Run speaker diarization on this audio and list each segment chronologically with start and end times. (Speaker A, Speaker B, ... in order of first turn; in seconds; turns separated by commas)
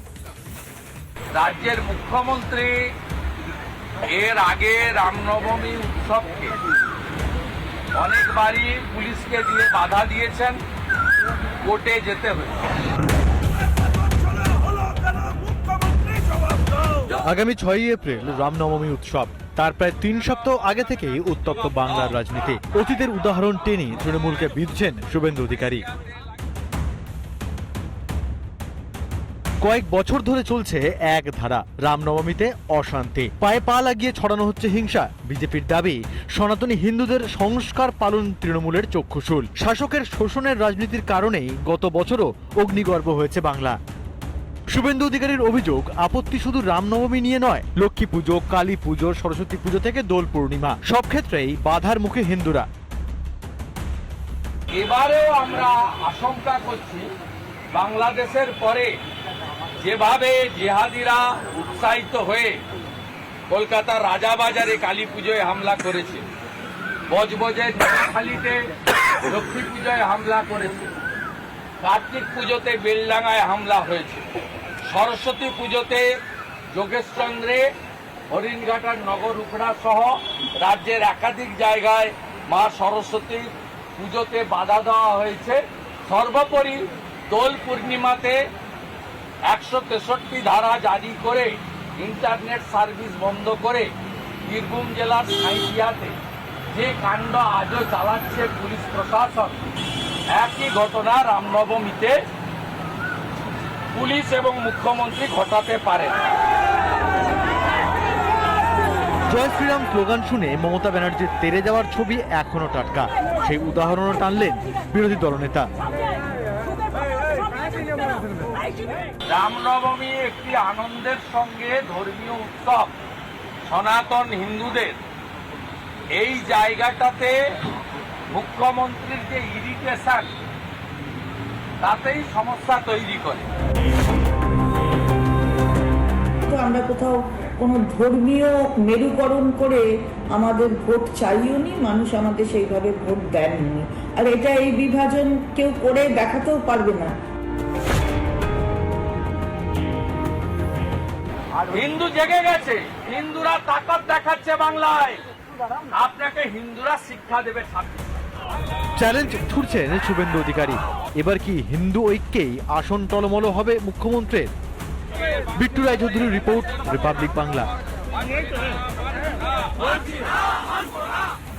Speaker A: 1.4-2.9, Speaker A: 4.1-6.5, Speaker A: 8.0-10.6, Speaker A: 11.6-12.6, Speaker B: 17.2-25.9, Speaker B: 29.6-43.8, Speaker B: 44.7-52.7, Speaker A: 54.8-57.1, Speaker A: 57.7-58.9, Speaker A: 59.8-62.6, Speaker A: 63.5-66.2, Speaker A: 67.1-68.6, Speaker A: 69.3-70.9, Speaker A: 71.8-74.2, Speaker A: 74.9-76.0, Speaker A: 76.7-77.7, Speaker A: 78.3-88.4, Speaker A: 89.5-93.9, Speaker A: 94.5-96.2, Speaker A: 96.7-99.6, Speaker A: 100.3-102.2, Speaker A: 103.9-106.1, Speaker B: 109.3-115.7, Speaker A: 119.3-123.0, Speaker A: 123.7-125.0, Speaker A: 126.2-127.3, Speaker A: 128.3-130.3, Speaker A: 131.8-133.5, Speaker C: 136.5-147.1, Speaker A: 151.6-155.2, Speaker A: 155.9-158.1, Speaker B: 159.0-164.5, Speaker B: 165.6-167.7